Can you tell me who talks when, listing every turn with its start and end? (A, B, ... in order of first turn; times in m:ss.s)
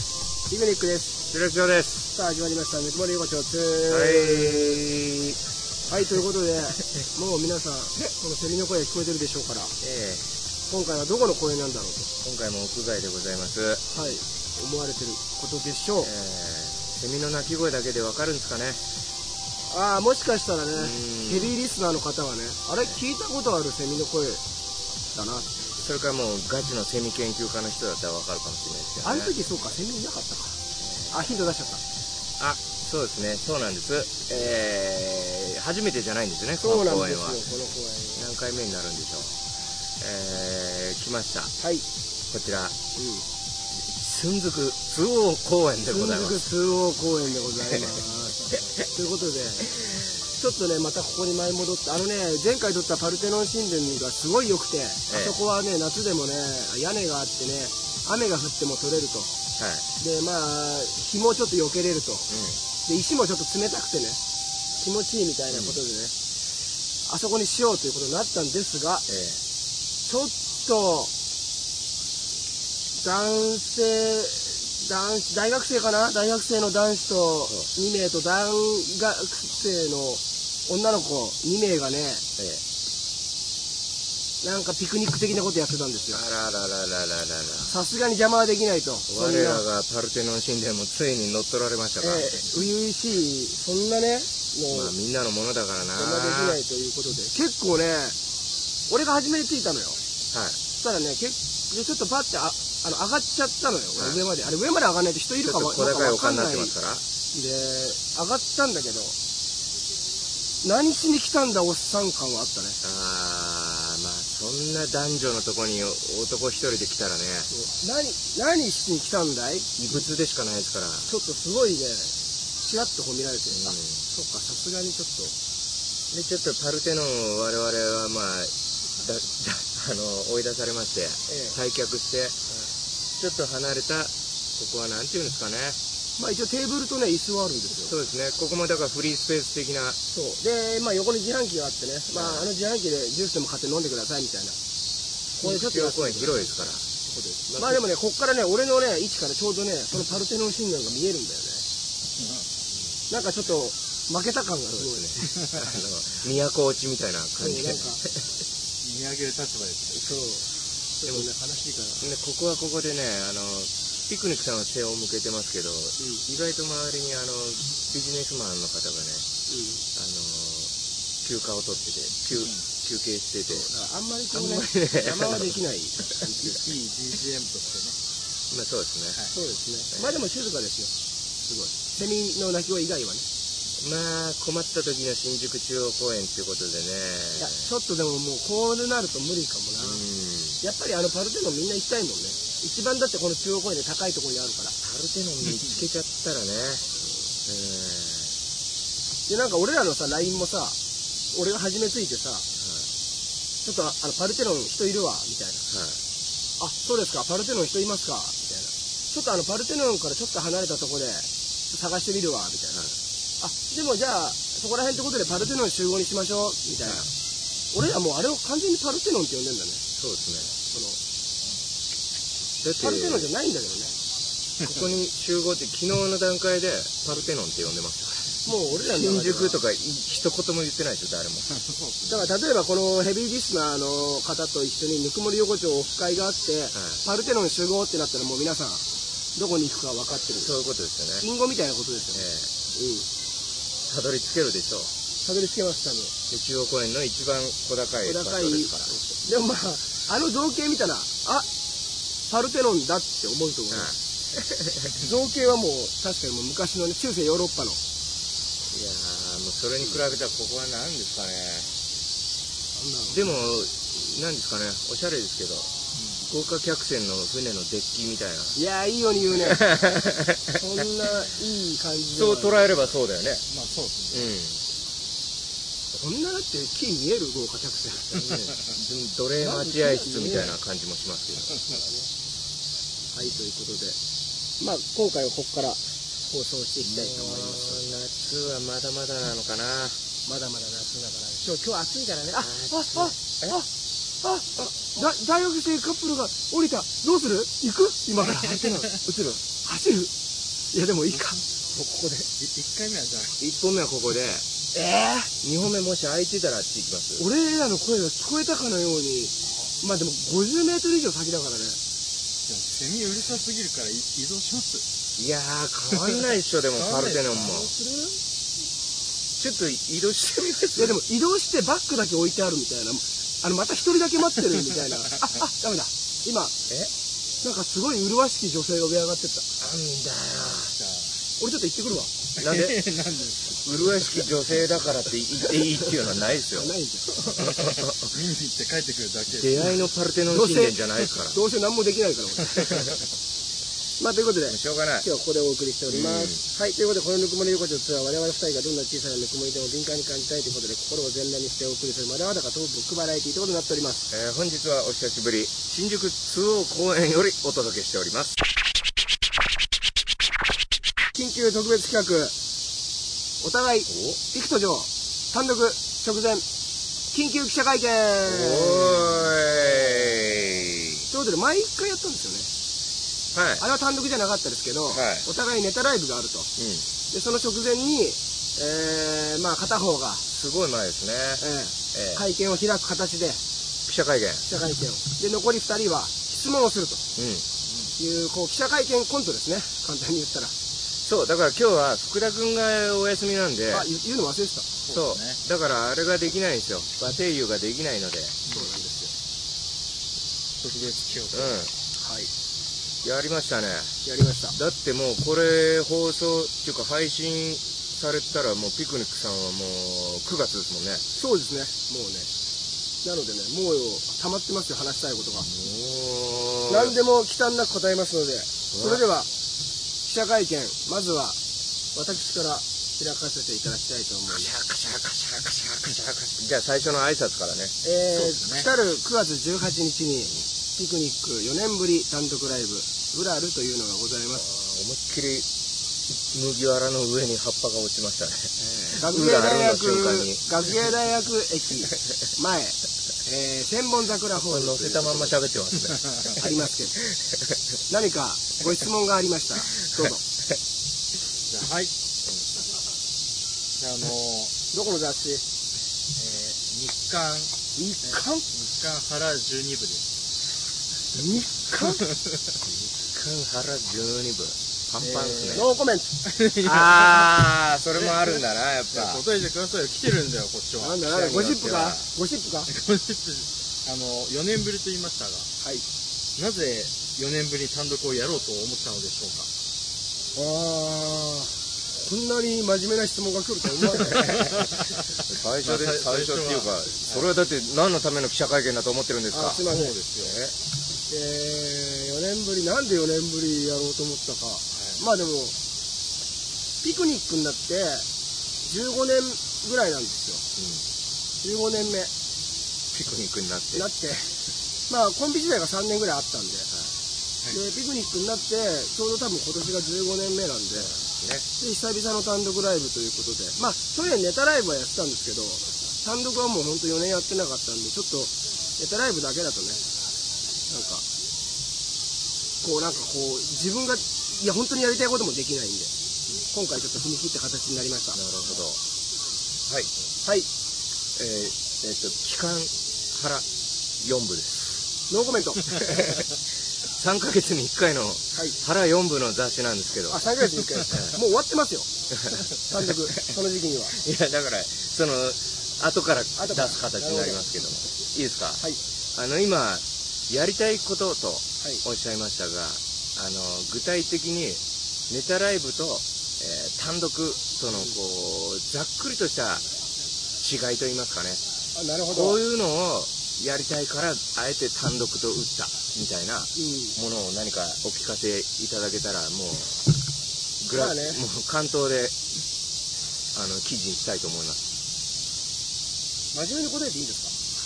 0:00.5-0:01.3 A
0:01.3-0:02.1 B
0:02.1-0:04.8 A
0:03.8-0:05.4 B
0:05.9-0:09.7 A
0:09.8-0:10.2 B
0:10.7-0:12.1 A
0:12.2-0:14.0 B
0:13.9-0:16.1 A
0:16.0-0:18.8 B
0:19.7-0:24.4 A
0:20.8-0:21.5 B
0:25.1-0:25.5 A
0:25.8-0:29.3 B
0:29.0-0:30.6 A
0:30.8-0:31.1 B
0:31.1-0:31.8 A
0:32.4-0:37.4 B
0:36.6-0:38.2 A
0:38.1-0:39.4 B
0:40.0-0:41.5 B
0:41.6-0:41.8 A
0:42.3-0:42.8 B
0:42.9-0:43.2 A
0:43.7-0:46.4 B
0:45.9-0:49.8 A
0:50.3-0:59.3 A
0:55.1-0:55.4 B
0:59.6-0:59.8 B
1:00.0-1:02.3 A
1:02.3-1:02.6 B
1:02.8-1:04.2 A
1:04.8-1:06.1 A
1:05.5-1:05.8 B
1:07.0-1:09.0 A
1:09.1-1:09.4 B
1:10.0-1:11.1 A
1:12.9-1:22.2 A
1:22.4-1:22.6 B
1:24.4-1:26.2 A
1:26.1-1:27.7 B
1:27.7-1:29.6 A
1:29.1-1:32.4 B
1:32.0-1:34.9 A
1:34.7-1:36.6 B
1:36.0-1:38.2 A
1:38.9-1:40.0 A
1:40.3-1:40.6 B
1:40.7-1:46.7 A
1:44.0-1:44.2 B
1:45.4-1:47.0 B
1:47.3-1:49.1 A
1:50.6-1:52.8 A
1:52.8-1:57.5 B
1:57.5-1:59.8 A
1:59.8-2:01.1 B
2:01.1-2:05.3 A
2:03.5-2:04.0 B
2:06.1-2:12.4 B
2:11.3-2:11.6 A
2:13.2-2:15.8 B
2:16.2-2:18.0 A
2:17.9-2:20.0 B
2:20.1-2:24.6 A
2:22.1-2:22.5 B
2:25.4-2:26.8 B
2:25.4-2:26.2 A
2:27.1-2:31.6 A
2:27.5-2:27.8 B
2:32.2-2:32.5 C
2:33.1-2:35.3 A
2:34.8-2:38.2 B
2:37.4-2:38.0 A
2:38.8-2:40.0 C
2:39.9-2:40.5 A
2:41.0-2:42.0 A
2:42.0-2:49.2 B
2:46.0-2:46.2 A
2:49.5-2:49.8 A
2:50.0-2:50.7 B
2:51.2-2:53.7 B
2:53.5-2:56.6 A
2:54.3-2:55.6 B
2:56.4-2:58.0 C
2:58.5-2:59.2 B
2:59.3-3:00.9 A
2:59.9-3:00.2 B
3:01.4-3:03.2 A
3:03.8-3:07.6 B
3:07.4-3:10.0 A
3:09.8-3:10.6 B
3:10.6-3:14.8 A
3:14.8-3:16.8 B
3:17.4-3:18.3 B
3:19.3-3:20.8 A
3:21.3-3:22.4 A
3:22.6-3:22.9 B
3:23.6-3:25.6 A
3:25.7-3:26.0 B
3:26.6-3:32.8 A
3:33.4-3:37.1 A
3:37.7-3:39.8 A
3:40.0-3:40.5 B
3:40.7-3:41.0 A
3:42.6-3:43.3 B
3:42.7-3:43.9 A
3:44.6-3:51.5 B
3:48.4-3:49.6 A
3:51.7-3:52.0 C
3:52.0-3:58.8 A
3:56.7-3:57.0 B
3:59.4-4:00.5 A
4:00.4-4:01.3 B
4:01.2-4:03.1 A
4:02.1-4:02.5 B
4:03.9-4:04.9 B
4:05.2-4:06.1 A
4:06.3-4:08.9 B
4:08.0-4:11.5 A
4:12.3-4:13.9 A
4:13.7-4:14.9 B
4:14.9-4:17.8 A
4:18.7-4:21.7 B
4:22.8-4:23.3 A
4:23.1-4:25.7 B
4:26.2-4:28.6 B
4:28.5-4:29.6 A
4:29.4-4:30.6 B
4:30.5-4:32.7 A
4:32.2-4:33.4 B
4:33.5-4:34.3 C
4:34.1-4:34.6 B
4:35.9-4:38.2 A
4:38.1-4:41.6 B
4:39.4-4:40.6 A
4:41.7-4:42.1 A
4:43.1-4:44.0 A
4:44.6-4:47.9 A
4:46.8-4:50.0 B
4:50.2-4:53.7 A
4:52.4-4:53.6 B
4:54.2-5:00.1 A
4:58.4-4:58.8 C
5:00.7-5:01.4 A
5:01.7-5:02.2 B
5:02.4-5:03.4 C
5:03.4-5:04.5 B
5:04.7-5:05.3 A
5:05.4-5:07.2 B
5:07.2-5:11.8 A
5:09.5-5:09.7 C
5:12.4-5:14.8 C
5:15.2-5:17.7 B
5:16.0-5:17.6 C
5:17.4-5:18.2 A
5:19.4-5:21.0 B
5:20.8-5:26.5 A
5:27.4-5:29.5 A
5:29.6-5:30.7 B
5:30.7-5:31.2 C
5:31.4-5:32.1 A
5:32.4-5:32.8 B
5:32.4-5:33.5 C
5:33.6-5:38.1 B
5:36.5-5:37.2 A
5:37.3-5:39.8 C
5:39.3-5:41.4 B
5:40.3-5:43.0 A
5:42.6-5:42.9 C
5:44.0-5:54.1 A
5:44.5-5:45.1 B
5:45.9-5:46.4 B
5:54.1-5:58.4 B
6:01.1-6:02.3 A
6:03.4-6:06.4 A
6:03.9-6:04.2 B
6:07.1-6:10.0 A
6:08.2-6:11.0 B
6:11.1-6:12.5 A
6:13.3-6:13.6 B
6:13.6-6:16.5 A
6:14.9-6:15.2 B
6:16.6-6:16.8 B
6:17.1-6:20.2 A
6:20.3-6:22.2 B
6:21.4-6:23.4 A
6:23.8-6:24.4 B
6:24.4-6:27.0 A
6:27.2-6:27.5 B
6:28.0-6:30.5 A
6:31.0-6:33.9 B
6:33.7-6:34.7 A
6:34.9-6:35.4 C
6:34.9-6:38.4 B
6:38.5-6:39.1 A
6:40.6-6:41.6 C
6:41.3-6:41.7 B
6:42.0-6:42.3 A
6:43.0-6:44.0 B
6:44.0-6:44.6 A
6:44.5-6:51.0 B
6:51.1-6:52.3 A
6:53.0-6:55.5 A
6:55.4-6:56.9 B
6:56.7-6:59.3 A
6:58.7-6:59.0 B
7:00.0-7:01.4 A
7:01.9-7:04.5 A
7:04.3-7:07.7 B
7:07.8-7:14.4 A
7:08.1-7:08.7 C
7:14.4-7:15.4 B
7:16.3-7:20.7 B
7:18.9-7:25.4 A
7:24.3-7:27.5 B
7:26.4-7:27.0 A
7:27.9-7:30.2 A
7:31.5-7:31.9 C
7:33.7-7:34.5 C
7:34.7-7:35.4 A
7:36.2-7:37.5 C
7:37.8-7:38.4 A
7:38.0-7:40.0 C
7:41.1-7:42.0 A
7:42.6-7:45.7 B
7:45.0-7:45.7 C
7:45.5-7:46.3 A
7:46.3-7:47.4 C
7:46.6-7:49.2 B
7:48.0-7:48.4 C
7:48.9-7:51.0 C
7:50.8-7:52.7 A
7:51.0-7:52.1 B
7:52.7-7:55.5 C
7:56.4-7:59.5 C
8:00.3-8:04.6 A
8:04.0-8:04.5 B
8:04.1-8:07.3 C
8:05.3-8:09.6 B
8:09.3-8:09.9 A
8:09.6-8:10.3 C
8:10.2-8:10.5 B
8:11.1-8:15.5 A
8:16.8-8:18.0 A
8:18.6-8:20.4 A
8:20.6-8:20.8 B
8:21.4-8:22.1 A
8:22.9-8:23.9 B
8:23.7-8:24.3 A
8:24.9-8:26.7 A
8:27.5-8:30.9 A
8:30.8-8:31.4 B
8:31.6-8:39.8 A
8:40.7-8:41.0 A
8:42.6-8:45.9 A
8:46.4-8:48.2 A
8:48.1-8:48.8 B
8:51.2-8:53.4 B
8:54.0-8:54.8 B
8:55.1-8:55.7 A
8:55.7-8:56.2 B
8:56.9-9:00.3 B
8:58.3-8:58.6 A
9:00.1-9:04.0 A
9:00.9-9:01.2 B
9:03.9-9:08.6 B
9:06.4-9:07.4 A
9:09.1-9:19.6 B
9:20.4-9:21.4 B
9:21.7-9:22.4 A
9:22.1-9:29.8 B
9:26.6-9:27.0 A
9:30.6-9:32.2 B
9:30.7-9:31.2 A
9:33.3-9:34.6 B
9:36.3-9:37.3 A